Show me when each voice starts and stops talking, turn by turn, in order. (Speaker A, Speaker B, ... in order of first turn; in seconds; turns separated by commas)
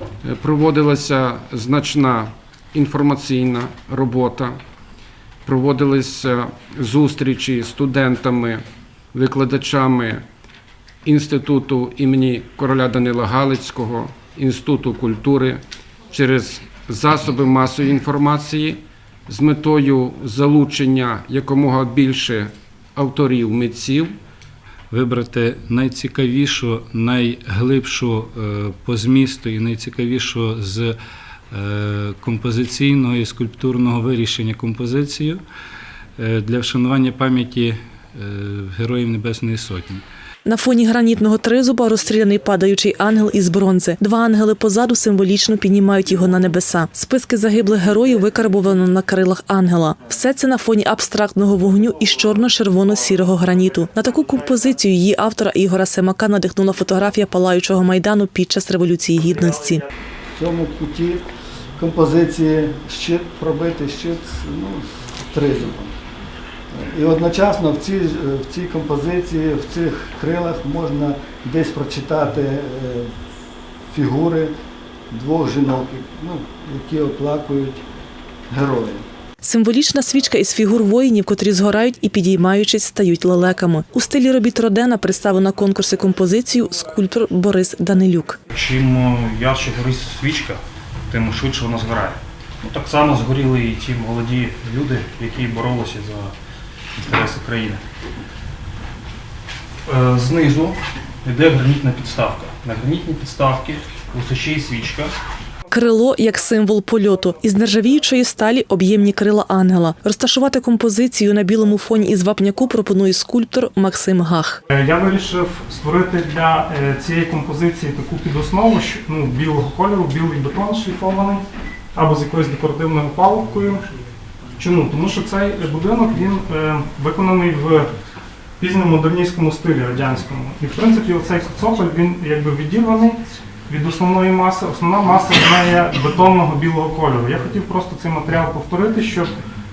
Speaker A: 0.2-4.6, Speaker A: 5.4-8.6, Speaker A: 9.1-10.2, Speaker A: 11.0-24.1, Speaker B: 24.9-31.0, Speaker B: 31.5-35.4, Speaker B: 36.2-40.0, Speaker C: 40.5-59.8, Speaker D: 60.3-61.2, Speaker D: 61.8-65.9, Speaker D: 66.7-73.1, Speaker D: 73.9-74.5, Speaker D: 75.1-77.8, Speaker D: 78.5-79.0, Speaker C: 79.4-88.4, Speaker E: 88.5-90.6, Speaker E: 91.1-96.3, Speaker E: 97.0-97.8, Speaker E: 99.8-105.1, Speaker C: 105.7-114.6, Speaker F: 114.7-121.4, Speaker F: 121.9-123.9, Speaker F: 124.5-127.9, Speaker F: 128.6-139.3